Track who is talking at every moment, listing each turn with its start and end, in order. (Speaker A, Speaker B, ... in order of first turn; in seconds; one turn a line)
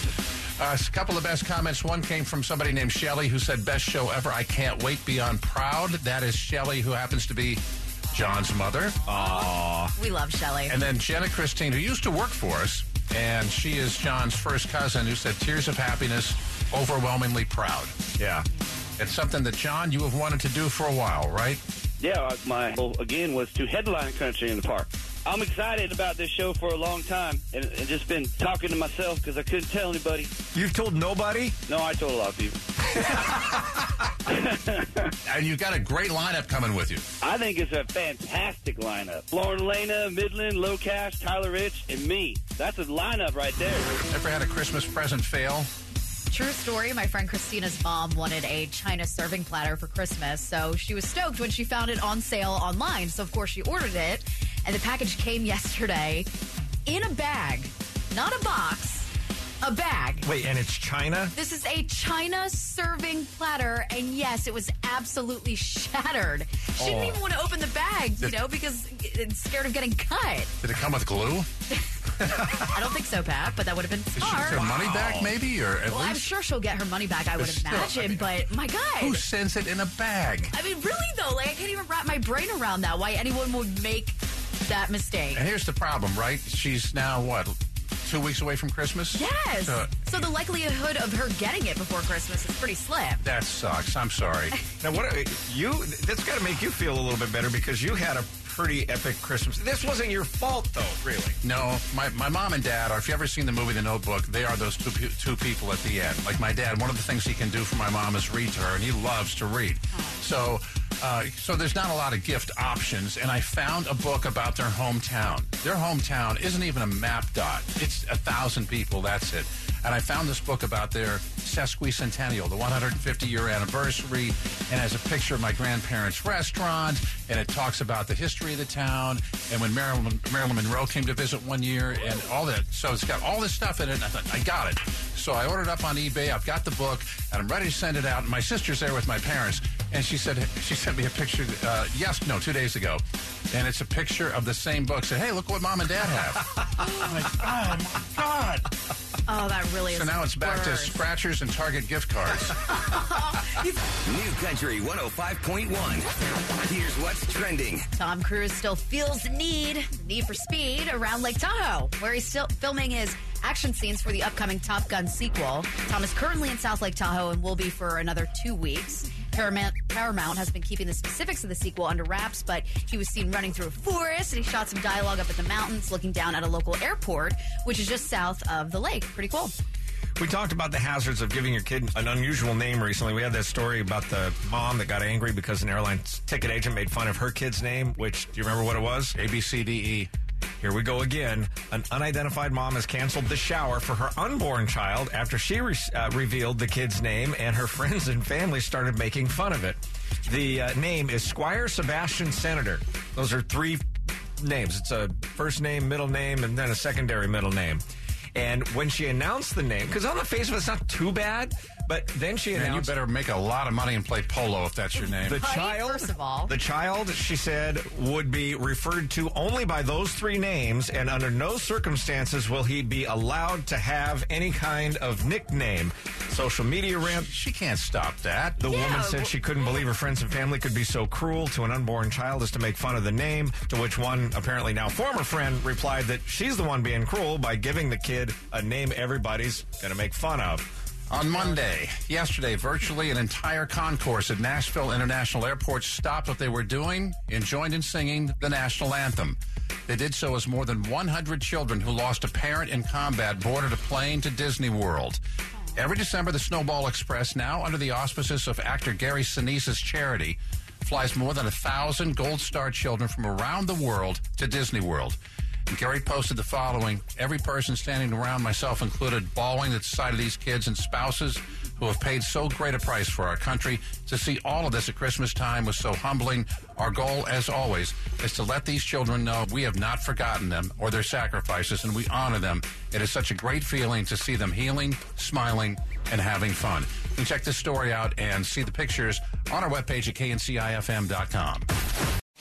Speaker A: 0.6-9.0
Speaker B: 9.0-10.8
Speaker C: 9.1-9.9
Speaker A: 10.7-17.9
Speaker C: 18.2-18.5
Speaker A: 19.0-21.6
Speaker D: 22.0-30.3
Speaker C: 30.5-31.6
Speaker D: 31.7-33.5
Speaker D: 34.3-35.1
Speaker A: 35.2-37.0
Speaker D: 37.2-44.0
Speaker A: 44.0-45.7
Speaker B: 46.3-56.3
Speaker B: 56.9-59.1
Speaker B: 59.6-60.2
Speaker C: 60.2-61.4
Speaker B: 61.4-70.5
Speaker C: 66.8-67.2
Speaker A: 70.6-71.5
Speaker B: 72.3-74.7
Speaker A: 74.2-76.3
Speaker C: 74.5-75.3
Speaker B: 75.9-79.2
Speaker A: 77.4-78.3
Speaker A: 79.0-80.5
Speaker B: 80.5-85.5
Speaker A: 85.3-89.9
Speaker B: 89.1-93.2
Speaker A: 93.2-94.6
Speaker C: 94.8-101.3
Speaker A: 101.4-148.7
Speaker B: 110.0-110.2
Speaker B: 149.3-151.0
Speaker A: 149.9-152.6
Speaker B: 152.7-153.6
Speaker E: 154.0-156.1
Speaker E: 156.7-157.9
Speaker B: 158.0-179.5
Speaker C: 180.2-189.2
Speaker A: 189.1-190.1
Speaker C: 190.6-203.8
Speaker C: 204.4-207.8
Speaker C: 208.3-212.9
Speaker A: 212.5-215.5
Speaker C: 215.2-227.3
Speaker B: 215.3-216.5
Speaker A: 227.0-228.7
Speaker C: 228.6-240.7
Speaker B: 228.6-229.3
Speaker A: 241.1-255.2
Speaker A: 255.8-265.2
Speaker A: 265.7-291.7